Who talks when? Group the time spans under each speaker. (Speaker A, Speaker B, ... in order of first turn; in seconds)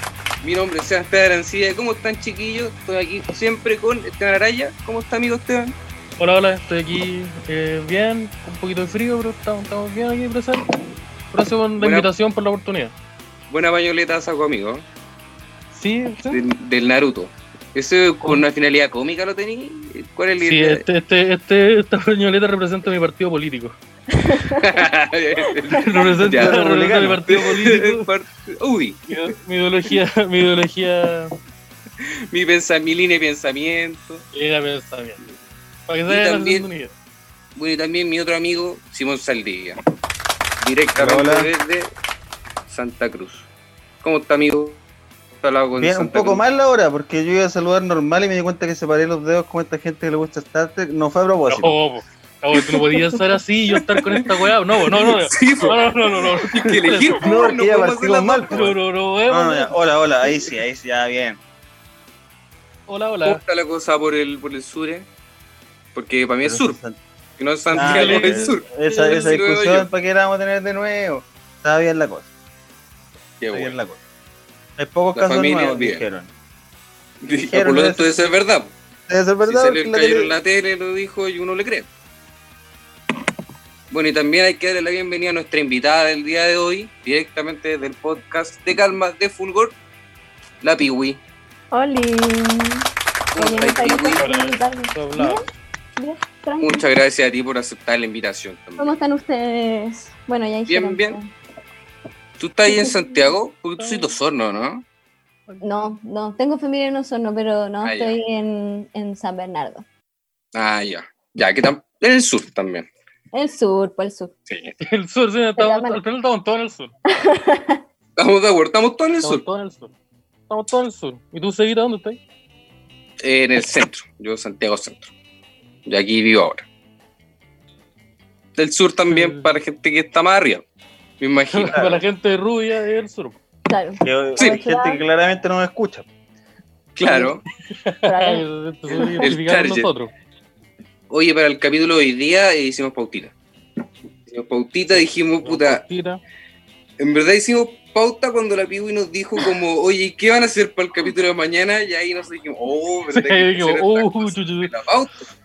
Speaker A: 0.4-5.8, 11.8-12.1, 13.5-14.8, 16.3-20.8, 24.6-26.6, 27.2-29.1, 32.0-34.2, 36.1-36.7, 37.6-39.8, 40.6-41.9, 42.7-43.5, 44.0-44.8, 45.4-46.4, 53.9-58.7, 63.2-65.1, 66.0-66.8, 67.4-69.9, 73.4-73.8, 75.1-76.0, 77.2-78.7, 79.4-81.9, 83.9-89.8, 90.6-91.2, 93.3-94.2, 96.6-98.9, 100.7-101.2, 102.4-104.8, 107.8-108.2, 110.5-112.9, 114.5-114.7, 118.2-119.4, 123.2-125.1, 125.9-126.7, 128.6-130.6, 131.2-132.0, 137.0-137.4, 139.2-139.9, 141.1-143.3, 144.3-145.8, 147.0-155.3
Speaker B: 6.2-10.7, 11.3-12.9, 15.7-16.4, 20.4-23.8, 25.7-28.1, 29.1-31.3, 34.3-35.2, 35.9-36.9, 51.5-57.5, 58.5-59.8, 62.9-63.4, 67.7-69.4, 94.2-95.5, 103.8-104.1, 114.8-116.9, 119.2-119.9, 120.5-122.2, 129.1-129.5, 131.5-133.4, 137.7-140.1, 145.0-146.2, 153.1-154.7
Speaker C: 24.2-24.6, 91.7-96.8, 98.8-101.3, 102.7-103.3, 105.6-109.8, 113.3-114.3, 115.6-116.0, 117.1-117.8, 133.7-135.0, 138.1-139.2
Speaker D: 26.3-27.2, 41.0-41.5, 45.8-51.8, 57.2-58.8, 59.3-61.4, 66.4-67.0, 67.7-72.3, 73.5-74.0, 74.8-76.3, 77.5-78.3, 79.1-80.3, 131.7-132.0, 134.0-136.1